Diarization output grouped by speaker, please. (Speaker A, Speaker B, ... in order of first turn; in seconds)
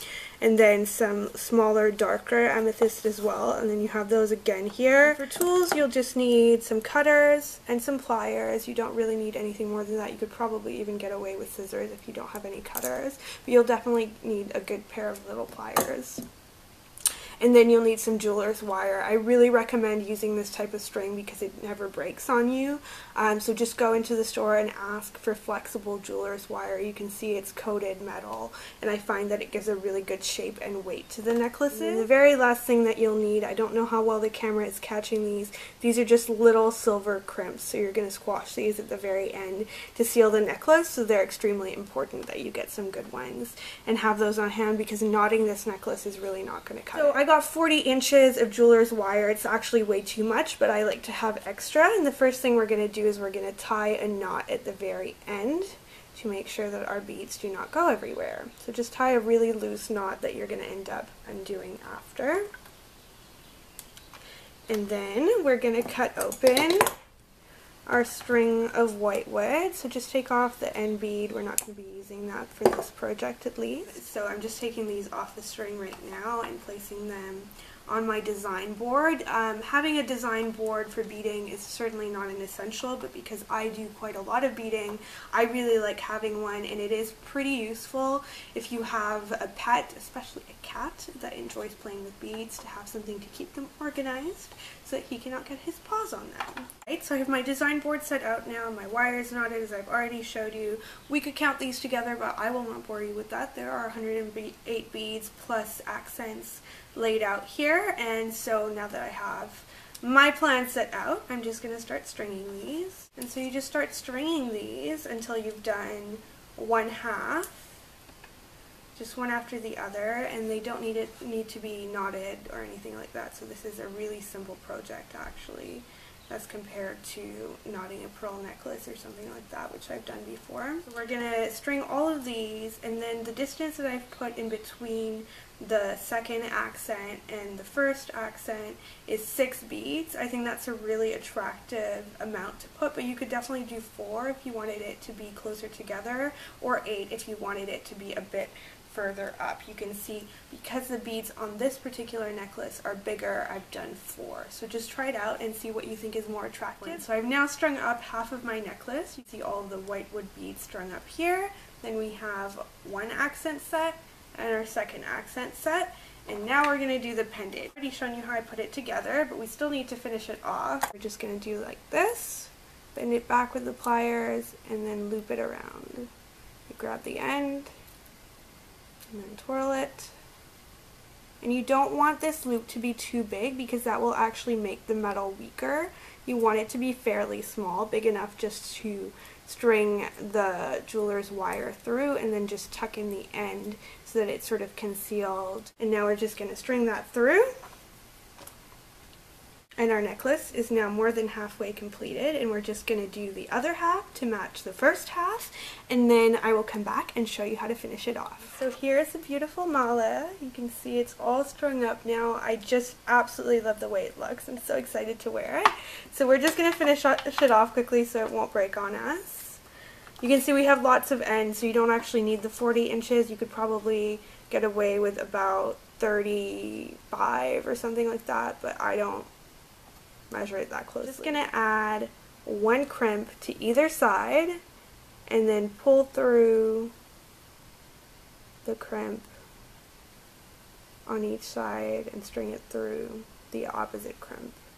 Speaker A: 0.4-16.2, 17.4-62.5, 64.7-66.9, 67.9-117.8, 119.0-176.1, 176.7-177.7, 179.1-180.2, 181.4-197.5, 199.8-219.6, 220.2-229.3, 230.3-234.6, 235.3-236.9, 238.7-239.3, 241.1-244.6